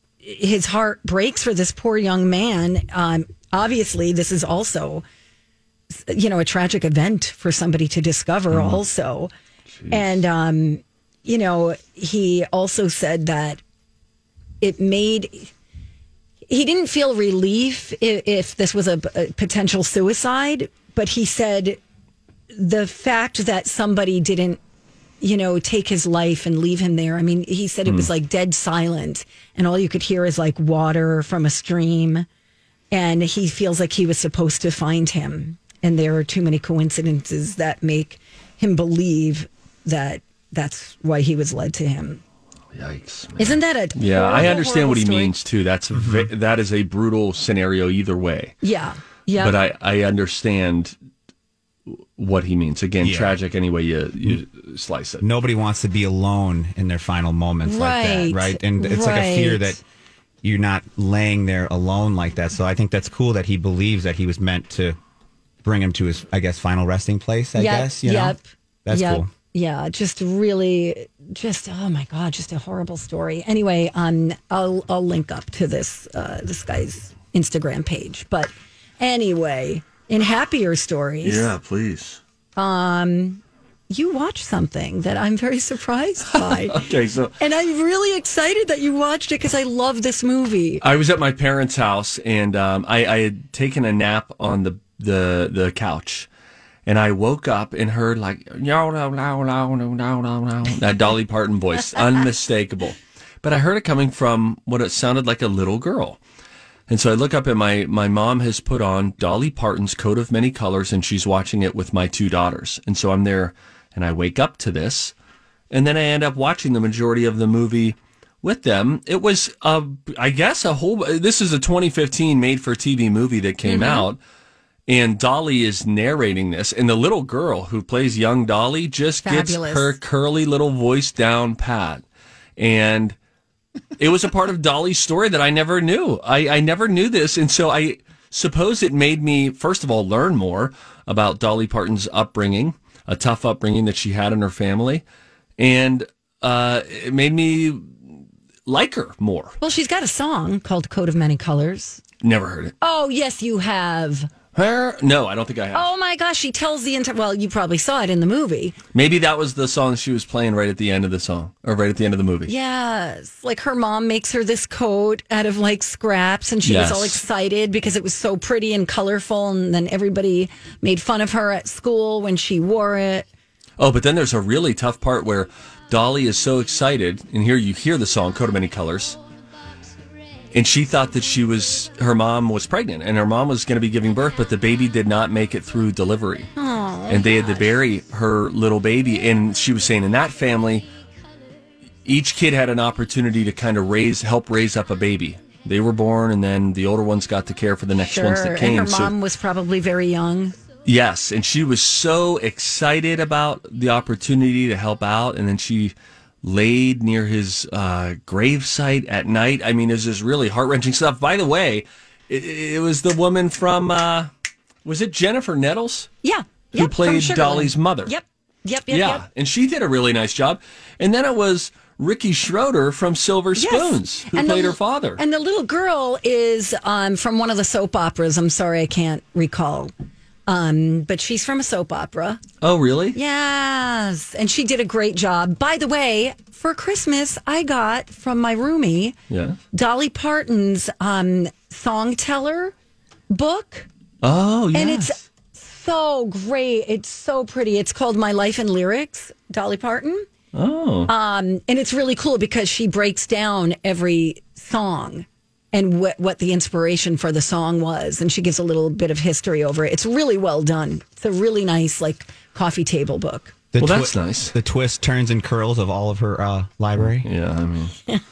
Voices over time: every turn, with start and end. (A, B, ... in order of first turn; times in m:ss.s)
0:00.2-0:05.0 A
0:05.9-0:09.3 A
0:08.5-0:08.8 B
0:09.7-0:10.2 B
0:09.9-0:13.6 A
0:14.6-0:15.5 A
0:16.5-0:21.8 A
0:22.5-0:24.6 A
0:25.2-0:32.2 A
0:27.8-0:28.1 B
0:32.9-0:42.2 A
0:42.7-0:48.6 B
0:43.4-0:45.3 A
0:45.9-0:46.3 C
0:48.6-0:49.5 A
0:49.4-0:50.9 B
0:51.9-0:55.2 B
0:53.0-0:53.4 C
0:55.2-0:59.8 C
0:57.6-0:59.8 A
1:00.4-1:05.0 C
1:05.6-1:09.3 C
1:07.6-1:21.5 A
1:21.2-1:22.2 B
1:22.6-1:26.8 A
1:26.3-1:27.3 B
1:27.4-1:30.8 A
1:30.8-1:36.3 B
1:36.8-1:46.2 B
1:46.9-1:55.1 B
1:55.7-2:04.2 B
2:03.6-2:04.1 A
2:04.9-2:12.0 B
2:09.2-2:10.0 A
2:12.6-2:13.2 B
2:14.0-2:25.0 B
2:25.6-2:27.9 B
2:28.6-2:29.6 B
2:29.6-2:32.0 A
2:32.2-2:32.7 B
2:32.8-2:34.3 A
2:34.5-2:35.9 B
2:35.7-2:38.8 A
2:38.9-2:42.5 B
2:42.5-2:53.2 A
2:46.6-2:47.2 B
2:53.8-2:59.2 B
3:00.5-3:06.5 B
3:06.6-3:07.8 A
3:07.1-3:10.9 B
3:12.0-3:19.1 B
3:18.0-3:20.5 A
3:20.8-3:34.3 B
3:34.8-3:36.1 B
3:36.2-3:39.2 A
3:36.7-3:38.1 B
3:38.9-3:45.2 B
3:43.6-3:49.9 A
3:50.5-3:52.4 A
3:52.6-3:53.2 B
3:53.1-3:59.2 A
3:59.3-3:59.6 B
3:59.7-4:02.7 A
4:03.3-4:03.9 A
4:04.2-4:05.2 B
4:04.7-4:10.2 A
4:10.5-4:11.1 B
4:11.1-4:23.5 A
4:23.7-4:27.3 C
4:23.8-4:24.5 B
4:27.0-4:27.9 B